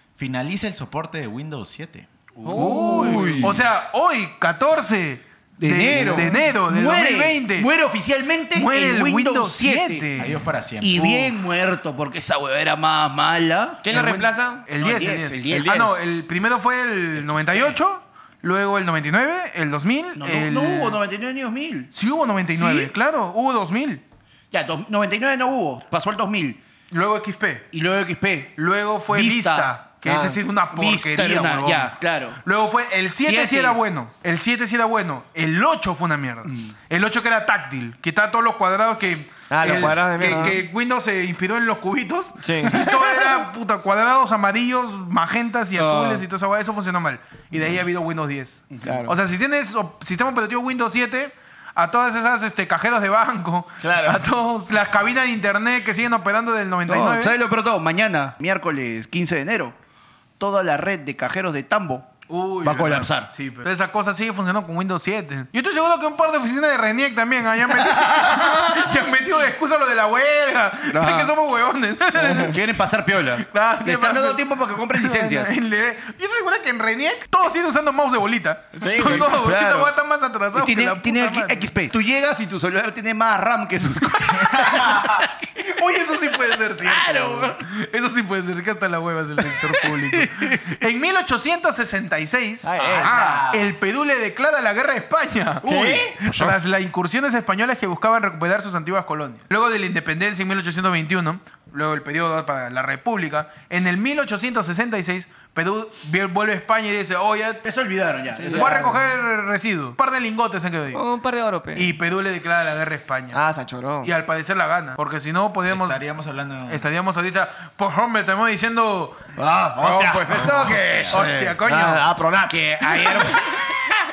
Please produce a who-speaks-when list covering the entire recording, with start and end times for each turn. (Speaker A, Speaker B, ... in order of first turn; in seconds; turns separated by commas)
Speaker A: 0.2-2.1, Speaker B: 2.4-3.6, Speaker C: 2.4-3.5, Speaker D: 2.5-7.7, Speaker B: 5.6-10.1, Speaker D: 8.5-10.4, Speaker A: 10.2-11.2, Speaker B: 10.8-13.8, Speaker D: 11.0-11.3, Speaker C: 13.8-14.7, Speaker D: 13.9-21.0, Speaker B: 14.8-16.0, Speaker C: 15.5-15.8, Speaker B: 20.2-21.9, Speaker D: 21.9-24.0, Speaker B: 22.6-22.9, Speaker B: 24.5-26.6, Speaker D: 26.9-27.7, Speaker B: 27.7-28.6, Speaker D: 28.6-57.4, Speaker B: 29.1-29.7, Speaker C: 30.0-30.4, Speaker B: 30.7-32.4, Speaker B: 33.2-33.8, Speaker B: 36.5-36.7, Speaker C: 39.5-40.6, Speaker C: 42.4-42.9, Speaker B: 42.7-43.4, Speaker B: 45.8-46.2, Speaker B: 48.7-49.0, Speaker C: 48.8-49.1, Speaker C: 53.8-54.3, Speaker B: 56.9-59.8, Speaker B: 60.4-62.1, Speaker D: 62.3-72.6, Speaker B: 62.6-63.3, Speaker B: 67.8-68.9, Speaker B: 70.9-71.3, Speaker B: 72.2-75.5, Speaker D: 73.4-81.7, Speaker C: 78.8-79.4, Speaker B: 79.0-79.9, Speaker B: 80.5-85.5, Speaker A: 84.3-85.3, Speaker D: 85.6-107.6, Speaker B: 86.8-87.6, Speaker B: 89.5-90.6, Speaker C: 92.6-93.2, Speaker B: 92.8-93.4, Speaker A: 93.0-93.7, Speaker C: 95.6-96.1, Speaker B: 96.2-96.6, Speaker B: 107.6-109.0, Speaker C: 108.3-109.0, Speaker D: 108.5-111.0, Speaker C: 110.9-111.9, Speaker D: 111.8-113.4, Speaker C: 113.3-114.1, Speaker D: 114.0-116.0, Speaker A: 115.7-116.8, Speaker D: 116.7-119.2, Speaker C: 119.4-123.5, Speaker B: 119.8-121.5, Speaker D: 120.3-122.0, Speaker B: 122.5-123.9